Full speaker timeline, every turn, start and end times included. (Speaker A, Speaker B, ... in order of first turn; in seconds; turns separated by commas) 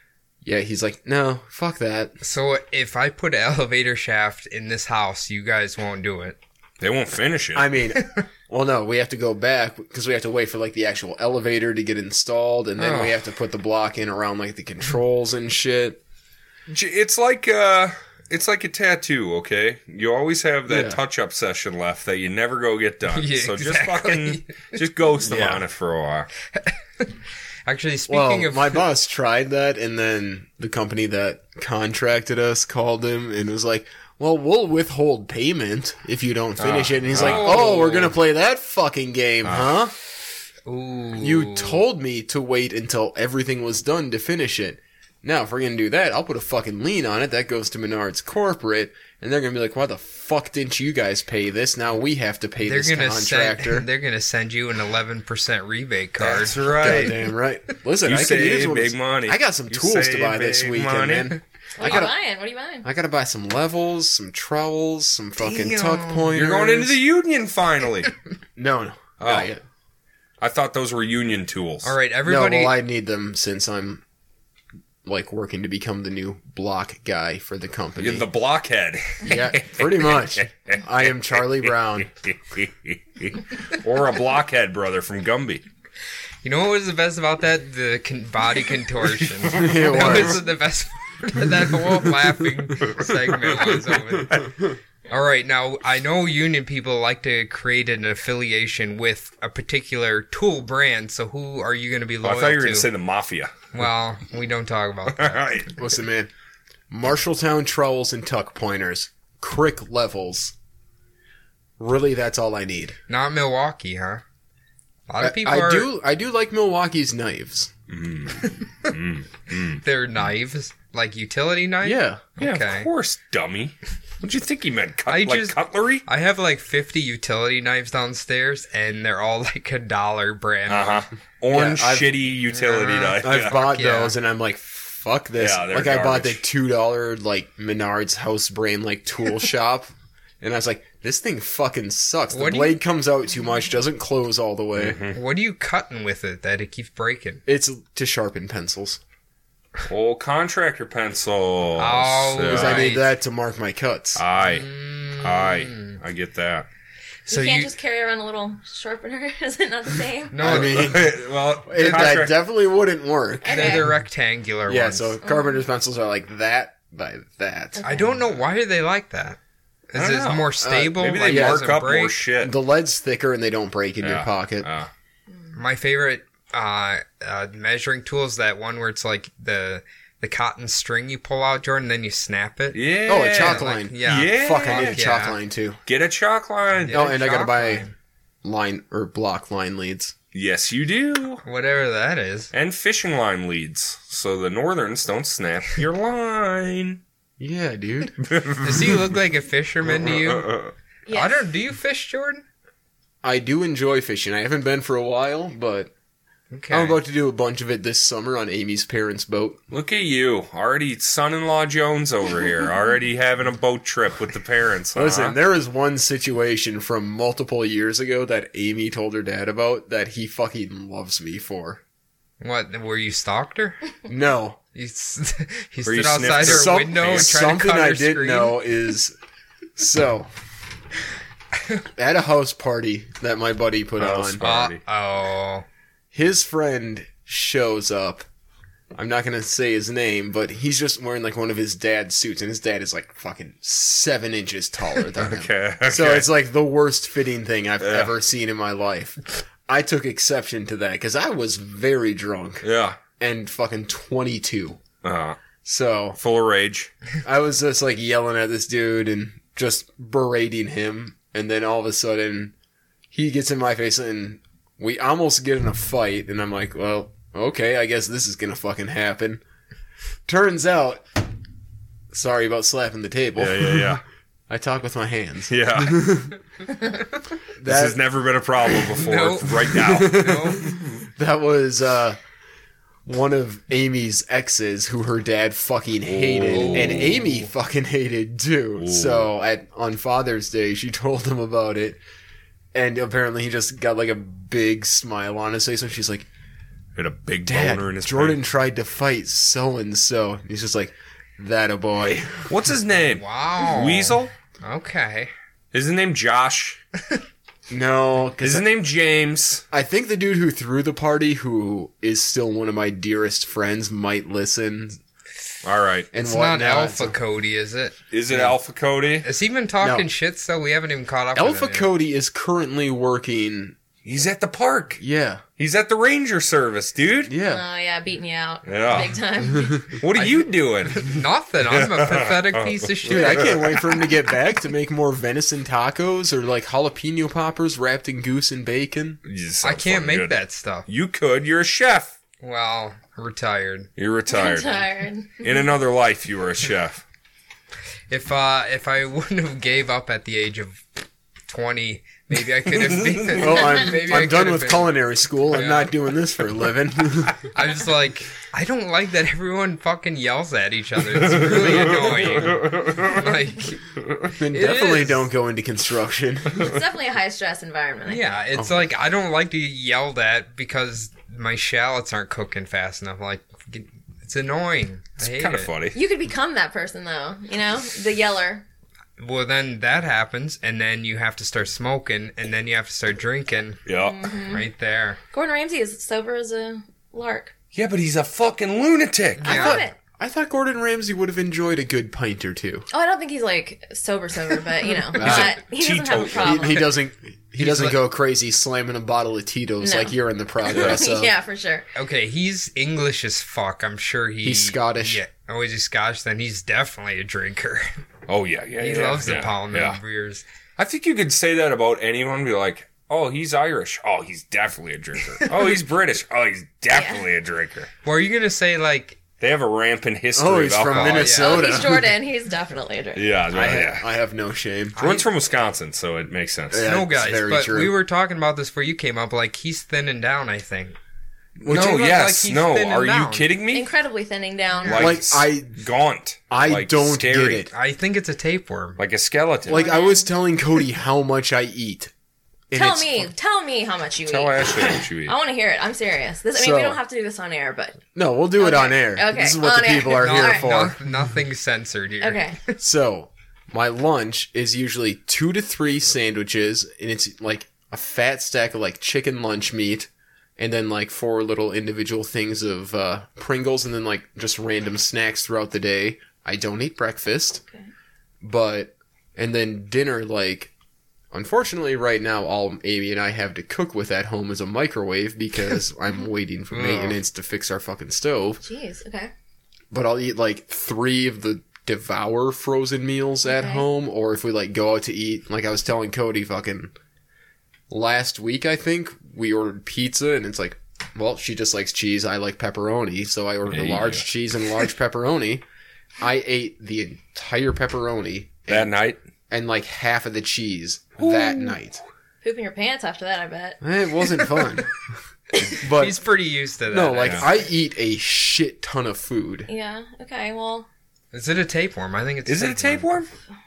Speaker A: 0.4-2.2, Speaker B: 2.2-6.4, Speaker C: 6.8-7.7, Speaker A: 7.5-16.0, Speaker B: 8.0-8.2, Speaker C: 12.8-13.1, Speaker C: 16.7-26.3, Speaker A: 20.7-21.0, Speaker B: 23.1-25.6, Speaker B: 26.6-27.1, Speaker B: 27.6-28.8, Speaker A: 28.1-39.9, Speaker C: 36.6-37.7, Speaker B: 37.1-38.1, Speaker C: 39.5-39.7, Speaker B: 40.6-41.8, Speaker A: 41.2-53.9, Speaker B: 52.6-57.2, Speaker C: 56.2-57.1, Speaker A: 56.7-62.1, Speaker C: 58.0-61.4, Speaker D: 61.8-62.9, Speaker A: 62.8-67.0, Speaker B: 65.5-65.9, Speaker C: 66.1-68.2, Speaker A: 68.5-69.6, Speaker C: 69.2-69.5, Speaker C: 70.4-71.9, Speaker B: 71.8-72.8, Speaker A: 72.2-74.0, Speaker A: 75.0-78.2, Speaker C: 78.0-80.8, Speaker A: 79.2-82.1, Speaker C: 81.4-81.7, Speaker C: 82.2-85.6, Speaker B: 86.4-94.4, Speaker C: 89.2-90.3, Speaker A: 89.5-90.4, Speaker C: 92.8-94.5, Speaker B: 95.1-102.9, Speaker C: 102.2-103.5, Speaker B: 103.7-105.4, Speaker C: 105.1-105.8, Speaker A: 105.7-106.3, Speaker A: 106.9-110.5, Speaker A: 111.8-113.0, Speaker B: 113.1-114.2, Speaker B: 115.1-115.9, Speaker A: 115.2-117.7, Speaker C: 117.9-119.8, Speaker B: 119.8-122.9, Speaker A: 121.8-122.3, Speaker C: 122.4-126.0, Speaker B: 125.1-131.1, Speaker C: 130.7-133.6, Speaker A: 131.5-132.2, Speaker B: 132.5-134.1, Speaker A: 133.2-145.0, Speaker C: 135.4-136.4, Speaker B: 142.3-142.8, Speaker C: 144.8-145.2, Speaker B: 145.1-147.4, Speaker A: 147.4-149.0, Speaker C: 149.9-152.9, Speaker B: 151.8-153.1, Speaker A: 152.4-154.2, Speaker C: 154.2-156.7, Speaker B: 154.4-156.0, Speaker B: 157.2-157.7, Speaker D: 157.3-160.5, Speaker B: 160.3-161.1, Speaker A: 160.4-163.9, Speaker C: 160.5-162.3, Speaker B: 161.8-162.1, Speaker D: 163.4-163.9, Speaker B: 163.4-165.2, Speaker A: 164.7-167.8, Speaker D: 165.2-165.6, Speaker D: 167.8-168.2, Speaker B: 167.8-169.4, Speaker B: 169.9-172.2, Speaker C: 169.9-172.5, Speaker A: 170.6-171.7, Speaker A: 172.4-174.7, Speaker C: 174.0-174.9, Speaker B: 175.5-185.4, Speaker C: 182.7-185.0, Speaker A: 183.1-185.8, Speaker C: 185.8-187.0, Speaker B: 186.8-187.9, Speaker A: 186.9-187.8, Speaker A: 188.4-190.1, Speaker C: 190.3-191.4, Speaker B: 191.4-192.5, Speaker C: 192.5-197.0, Speaker A: 197.4-198.2, Speaker C: 198.2-199.0, Speaker B: 198.6-200.5, Speaker C: 199.9-200.7, Speaker D: 201.1-201.4, Speaker B: 201.1-202.4, Speaker A: 203.2-205.9, Speaker B: 206.5-207.0, Speaker A: 206.7-209.6, Speaker C: 209.7-215.4, Speaker A: 214.9-221.8, Speaker B: 222.4-223.8, Speaker A: 224.1-224.6, Speaker B: 224.7-228.6, Speaker C: 225.8-227.4, Speaker A: 226.4-229.1, Speaker A: 229.8-230.3, Speaker A: 231.9-234.4, Speaker C: 234.0-234.8, Speaker B: 234.4-235.6, Speaker A: 236.1-238.2, Speaker A: 238.9-252.6, Speaker C: 245.2-246.3, Speaker C: 247.8-248.1, Speaker C: 252.6-253.0, Speaker A: 253.2-254.8, Speaker C: 255.0-255.4, Speaker A: 255.6-256.2, Speaker C: 256.2-256.9, Speaker A: 257.2-262.5, Speaker A: 263.1-269.4, Speaker A: 270.2-271.1, Speaker A: 272.1-276.3, Speaker C: 273.4-274.0, Speaker C: 275.5-276.3, Speaker A: 277.6-278.0, Speaker C: 277.6-280.8, Speaker B: 278.9-280.8, Speaker A: 279.7-282.2, Speaker A: 283.1-292.0, Speaker C: 286.1-287.2, Speaker B: 286.4-287.5, Speaker C: 288.8-289.3, Speaker A: 292.7-296.3, Speaker C: 296.9-298.4, Speaker A: 297.4-302.5, Speaker C: 302.5-304.3, Speaker B: 303.1-305.3, Speaker C: 305.7-306.8, Speaker A: 307.7-308.6, Speaker C: 308.4-309.6, Speaker A: 309.7-315.0, Speaker C: 315.6-316.1, Speaker A: 316.1-317.1, Speaker B: 316.1-317.9, Speaker C: 318.1-319.3, Speaker A: 318.3-318.5, Speaker B: 319.2-321.9, Speaker A: 319.8-320.1, Speaker A: 321.4-323.8, Speaker C: 324.0-325.0, Speaker A: 325.0-325.4, Speaker C: 325.6-327.3, Speaker A: 327.2-327.6, Speaker D: 327.4-330.0, Speaker C: 328.6-329.2, Speaker C: 329.9-333.8, Speaker B: 330.1-333.6, Speaker A: 333.1-339.2, Speaker C: 339.2-342.1, Speaker B: 339.6-340.9, Speaker B: 342.4-343.9, Speaker C: 344.0-344.9, Speaker D: 344.3-345.6, Speaker C: 345.4-347.0, Speaker B: 348.1-354.9, Speaker C: 352.7-353.6, Speaker A: 353.3-357.4, Speaker B: 355.5-355.9, Speaker B: 357.5-365.2, Speaker C: 361.2-363.3, Speaker A: 364.4-366.7, Speaker D: 366.5-368.3, Speaker B: 368.1-375.7, Speaker C: 375.2-376.0, Speaker D: 375.9-378.6, Speaker B: 379.2-383.8, Speaker C: 383.9-384.2, Speaker D: 383.9-384.7, Speaker B: 384.4-385.2, Speaker D: 385.3-387.5, Speaker C: 387.7-389.7, Speaker B: 389.4-389.8, Speaker D: 389.4-389.9, Speaker A: 389.5-392.9, Speaker D: 392.9-396.9, Speaker A: 395.1-395.5, Speaker C: 395.2-396.8, Speaker A: 396.3-401.3, Speaker B: 397.6-398.0, Speaker D: 399.8-401.9, Speaker C: 400.7-401.0, Speaker B: 401.9-407.9, Speaker A: 404.4-405.2, Speaker C: 408.3-410.0, Speaker B: 408.8-410.4, Speaker C: 410.8-417.9, Speaker B: 415.4-415.6, Speaker D: 416.9-417.2, Speaker B: 418.0-419.2, Speaker C: 419.4-421.4, Speaker A: 420.3-422.1, Speaker B: 420.8-421.7, Speaker D: 421.2-423.3, Speaker C: 423.1-424.1, Speaker A: 423.5-425.1, Speaker B: 425.0-425.2, Speaker C: 425.0-426.9, Speaker A: 426.7-427.9, Speaker B: 426.8-430.9, Speaker C: 431.6-433.9, Speaker A: 431.6-432.0, Speaker B: 431.6-433.5, Speaker D: 433.7-435.2, Speaker C: 434.8-437.7, Speaker A: 434.9-435.8, Speaker A: 436.5-437.7, Speaker B: 437.7-439.0, Speaker C: 439.0-439.9, Speaker A: 439.7-442.1, Speaker D: 439.7-440.3, Speaker A: 442.7-443.3, Speaker D: 442.7-448.0, Speaker C: 444.3-445.3, Speaker A: 446.5-447.0, Speaker A: 448.1-451.0, Speaker D: 448.6-450.7, Speaker B: 450.1-452.8, Speaker D: 452.2-452.6, Speaker A: 452.8-467.6, Speaker A: 468.4-470.7, Speaker A: 471.3-478.6, Speaker B: 476.7-477.2, Speaker D: 478.6-479.3, Speaker A: 479.9-486.9, Speaker D: 483.4-483.8, Speaker A: 487.9-495.6, Speaker C: 493.7-494.2, Speaker A: 496.2-498.9, Speaker C: 498.7-499.2, Speaker A: 499.5-502.0, Speaker C: 501.2-501.8, Speaker D: 502.4-503.8, Speaker A: 503.8-504.9, Speaker A: 505.8-506.2, Speaker B: 505.8-507.6, Speaker A: 506.9-509.7, Speaker D: 509.7-510.9, Speaker B: 511.3-513.1, Speaker C: 512.5-513.3